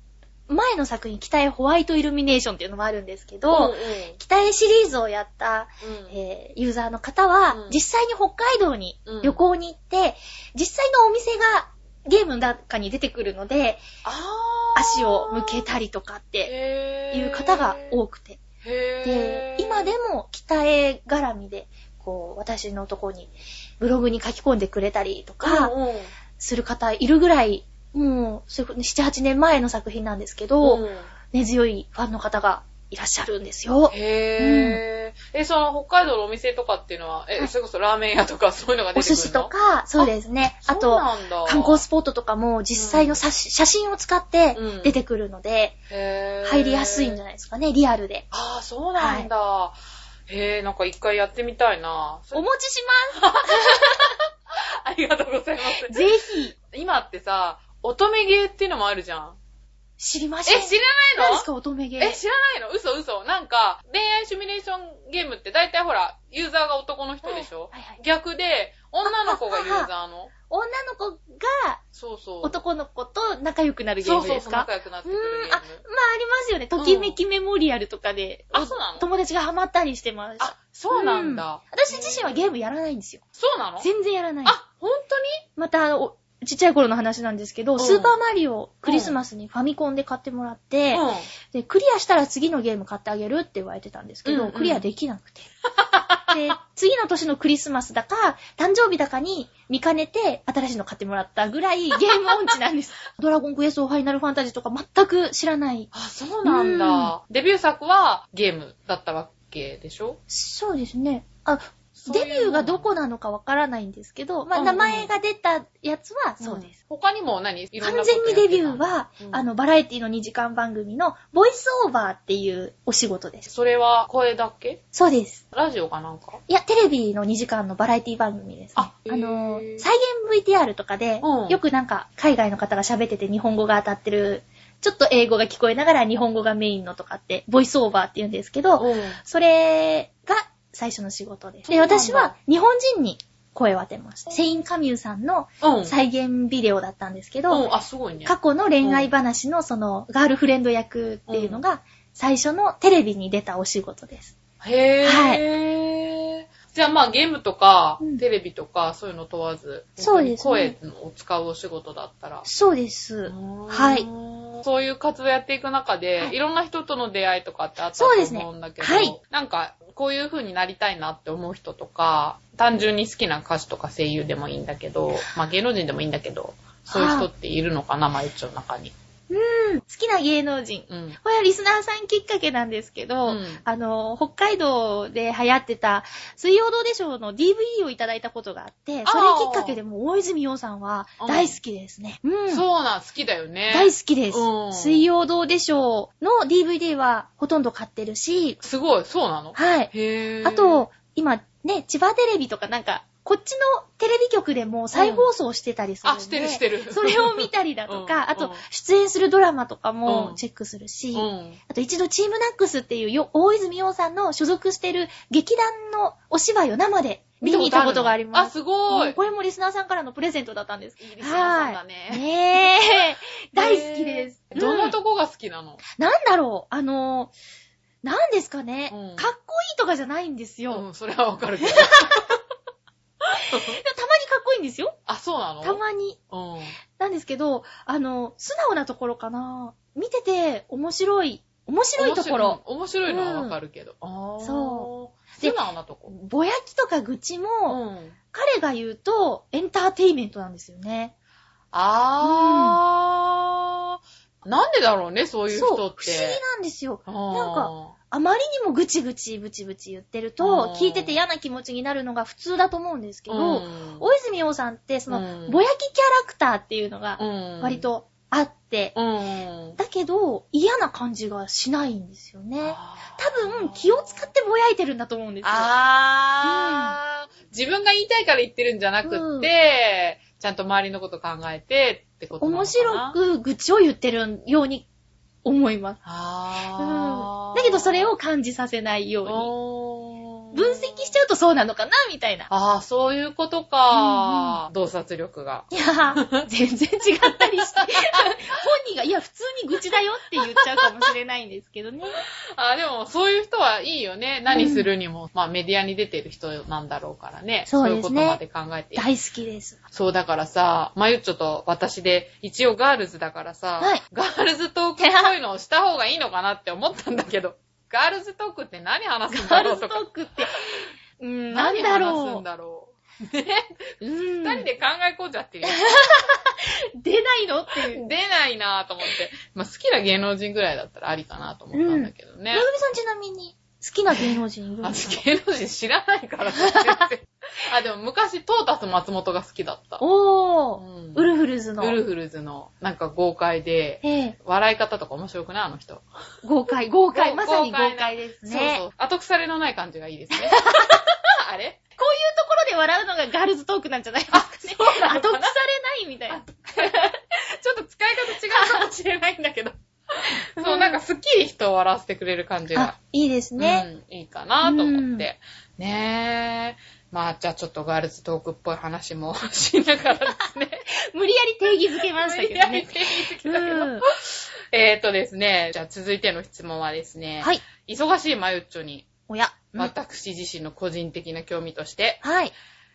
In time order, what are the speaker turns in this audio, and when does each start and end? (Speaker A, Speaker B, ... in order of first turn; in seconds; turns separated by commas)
Speaker A: 0.5-13.8, Speaker B: 3.5-4.2, Speaker B: 5.8-6.1, Speaker B: 7.5-7.8, Speaker B: 9.1-9.4, Speaker B: 14.0-15.7, Speaker A: 14.7-16.5, Speaker B: 16.4-18.0, Speaker A: 17.1-18.4, Speaker B: 18.6-19.9, Speaker A: 19.0-25.7, Speaker B: 25.4-26.1, Speaker A: 26.4-34.8, Speaker B: 30.6-31.1, Speaker B: 33.9-40.1, Speaker A: 38.9-45.8, Speaker B: 40.6-41.8, Speaker B: 42.7-43.2, Speaker B: 44.5-45.0, Speaker B: 45.9-47.2, Speaker A: 46.4-48.2, Speaker B: 48.3-49.8, Speaker A: 49.0-49.3, Speaker B: 50.3-52.5, Speaker A: 52.3-54.0, Speaker B: 53.2-59.4, Speaker A: 55.7-56.6, Speaker A: 60.0-62.2, Speaker B: 60.5-61.5, Speaker B: 62.0-70.3, Speaker A: 67.2-68.0, Speaker A: 69.0-69.9, Speaker A: 70.5-71.8, Speaker B: 71.9-72.6, Speaker A: 72.4-83.2, Speaker B: 74.0-75.8, Speaker B: 76.8-77.2, Speaker B: 78.5-79.1, Speaker B: 80.4-82.4, Speaker B: 83.3-83.9, Speaker A: 83.8-84.6, Speaker B: 84.4-85.4, Speaker A: 85.5-95.5, Speaker B: 87.8-88.1, Speaker B: 88.8-89.2, Speaker B: 90.9-91.3, Speaker B: 94.2-94.9, Speaker B: 95.8-96.5, Speaker A: 96.3-105.9, Speaker B: 105.9-110.2, Speaker A: 106.4-107.1, Speaker A: 110.3-116.7, Speaker B: 112.0-112.9, Speaker B: 114.5-115.1, Speaker B: 116.4-119.5, Speaker A: 117.8-123.5, Speaker B: 123.5-124.8, Speaker A: 124.9-125.4, Speaker B: 125.5-126.4, Speaker A: 126.5-147.7, Speaker B: 128.8-129.9, Speaker B: 131.2-131.6, Speaker B: 138.8-139.2, Speaker B: 141.7-142.3, Speaker B: 145.6-145.9, Speaker B: 147.5-149.1, Speaker A: 148.2-154.3, Speaker B: 151.3-151.6, Speaker B: 154.6-162.4, Speaker A: 155.0-155.4, Speaker A: 160.0-160.8, Speaker A: 162.4-164.1, Speaker B: 163.2-178.9, Speaker A: 167.9-169.2, Speaker A: 176.9-177.3, Speaker A: 179.3-192.6, Speaker B: 180.9-181.2, Speaker B: 183.2-183.6, Speaker B: 189.1-189.8, Speaker B: 191.2-191.6, Speaker B: 192.5-195.1, Speaker A: 193.7-198.6, Speaker B: 198.6-200.8, Speaker A: 199.5-199.9, Speaker A: 200.4-224.9, Speaker B: 204.9-205.3, Speaker B: 206.0-208.6, Speaker B: 210.1-210.4, Speaker B: 211.1-211.6, Speaker B: 217.4-219.2, Speaker B: 221.0-222.2, Speaker B: 223.5-225.8, Speaker A: 226.0-227.3, Speaker A: 228.0-230.8, Speaker B: 228.9-229.3, Speaker B: 230.7-232.4, Speaker A: 231.6-232.2, Speaker A: 233.4-235.0, Speaker B: 233.5-233.8, Speaker B: 235.1-236.8, Speaker A: 235.6-236.2, Speaker A: 237.0-243.6, Speaker B: 242.0-246.1, Speaker A: 244.4-247.8, Speaker B: 247.7-248.2, Speaker A: 248.3-251.1, Speaker B: 251.7-256.4, Speaker A: 252.2-252.8, Speaker A: 255.5-268.9, Speaker B: 257.1-257.9, Speaker B: 260.4-261.1, Speaker B: 263.3-264.1, Speaker B: 265.1-265.6, Speaker B: 267.2-267.9, Speaker B: 268.9-269.8, Speaker A: 269.8-275.7, Speaker B: 272.6-274.3, Speaker B: 275.4-283.1, Speaker A: 276.4-276.9, Speaker A: 279.0-279.5, Speaker A: 282.4-284.9, Speaker A: 285.4-286.0, Speaker B: 286.0-288.1, Speaker A: 286.8-289.5, Speaker B: 289.2-291.1, Speaker A: 290.5-292.5, Speaker B: 292.5-296.4, Speaker A: 293.9-294.6, Speaker A: 295.7-302.2, Speaker B: 297.4-298.4, Speaker B: 302.5-309.1, Speaker A: 304.5-304.9, Speaker A: 307.7-308.4, Speaker A: 308.9-309.8, Speaker B: 309.9-320.0, Speaker A: 315.0-315.3, Speaker A: 319.3-322.4, Speaker B: 321.5-323.8, Speaker A: 324.0-324.7, Speaker B: 324.4-326.3, Speaker A: 325.6-328.1, Speaker B: 327.9-332.7, Speaker A: 331.7-335.2, Speaker B: 334.1-340.0, Speaker A: 336.6-337.0, Speaker A: 340.0-342.0, Speaker B: 340.8-346.1, Speaker A: 344.0-344.4, Speaker A: 346.4-348.8, Speaker B: 347.1-351.8, Speaker A: 350.3-351.1, Speaker A: 352.0-357.1, Speaker B: 354.3-355.5, Speaker B: 356.3-363.0, Speaker A: 360.6-361.0, Speaker A: 362.7-363.9, Speaker B: 363.6-370.9, Speaker A: 364.6-365.2, Speaker A: 371.0-374.1, Speaker B: 372.0-379.1, Speaker A: 379.3-379.9, Speaker B: 379.8-382.2, Speaker A: 382.2-382.5